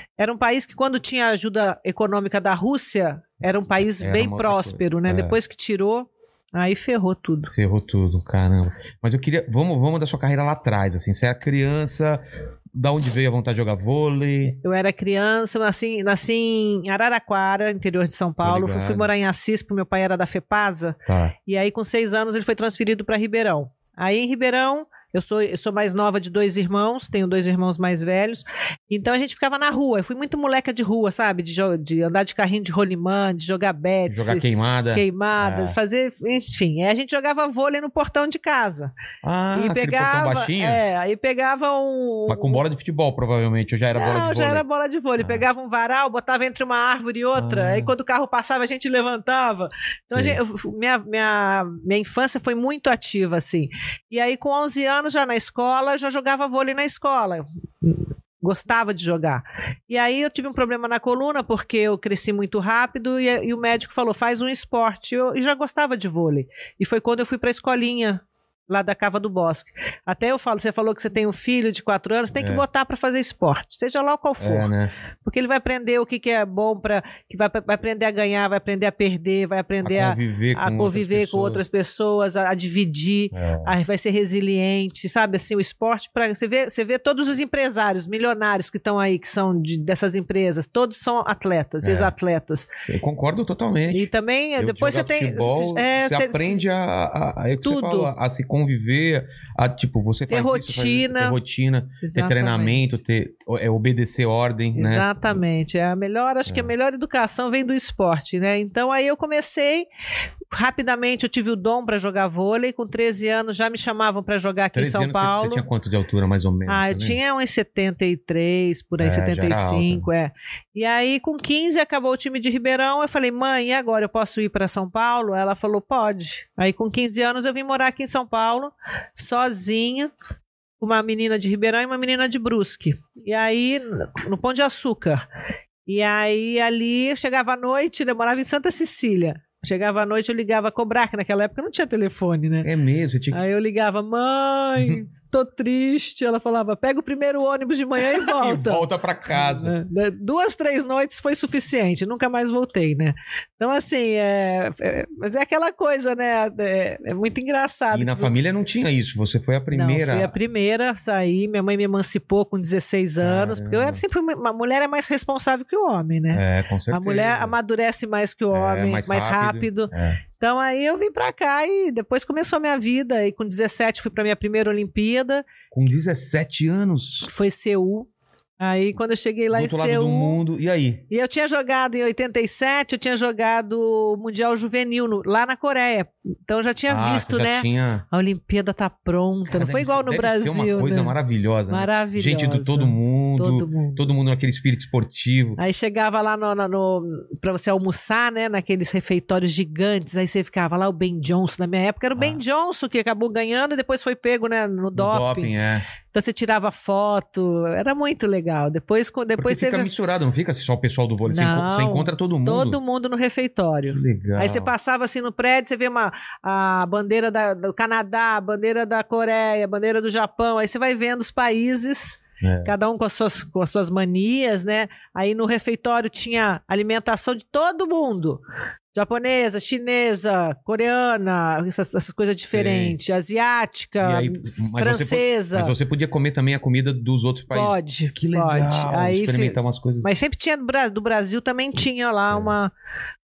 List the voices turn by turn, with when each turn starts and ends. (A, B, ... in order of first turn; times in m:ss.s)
0:00.2-0:07.5 A
0:04.0-0:05.4 B
0:07.5-0:12.2 B
0:12.7-0:14.6 B
0:14.6-0:38.9 A
0:18.4-0:19.1 B
0:21.1-0:21.4 B
0:34.1-0:35.8 B
0:39.2-0:40.8 B
0:39.5-0:42.6 A
0:42.3-0:44.6 B
0:44.0-1:14.7 A
0:45.2-0:45.5 B
0:47.4-0:47.9 B
0:50.1-0:50.4 B
1:12.4-1:12.6 B
1:14.4-1:14.9 B
1:15.2-1:32.7 A
1:19.8-1:21.6 B
1:23.3-1:23.8 B
1:31.8-1:32.1 B
1:32.9-1:45.4 B
1:33.9-1:36.6 A
1:37.6-1:38.1 A
1:40.3-1:41.4 A
1:42.0-1:42.8 A
1:44.8-1:49.9 A
1:46.5-1:46.7 B
1:50.5-1:55.6 A
1:54.7-1:57.2 B
1:56.7-2:10.1 A
1:59.0-2:00.1 B
2:10.8-2:15.2 A
2:15.9-2:22.7 A
2:22.6-2:23.4 B
2:23.3-2:38.3 A
2:28.0-2:29.7 B
2:37.9-2:40.4 B
2:39.7-2:55.5 A
2:43.2-2:44.0 B
2:46.3-2:47.5 B
2:48.5-2:50.2 B
2:55.7-2:57.3 B
2:57.2-2:58.1 A
2:58.6-3:00.4 A
2:59.5-3:01.0 B
3:01.1-3:11.1 A
3:06.9-3:08.0 B
3:09.5-3:15.6 B
3:11.7-3:14.1 A
3:15.6-3:25.5 A
3:25.0-3:25.9 B
3:26.1-3:29.9 A
3:29.4-3:32.8 B
3:31.3-3:48.4 A
3:33.9-3:34.7 B
3:42.4-3:42.7 B
3:48.9-3:55.7 A
3:52.5-3:53.0 B
3:54.0-4:00.2 B
3:57.5-4:02.7 A
4:02.3-4:02.5 B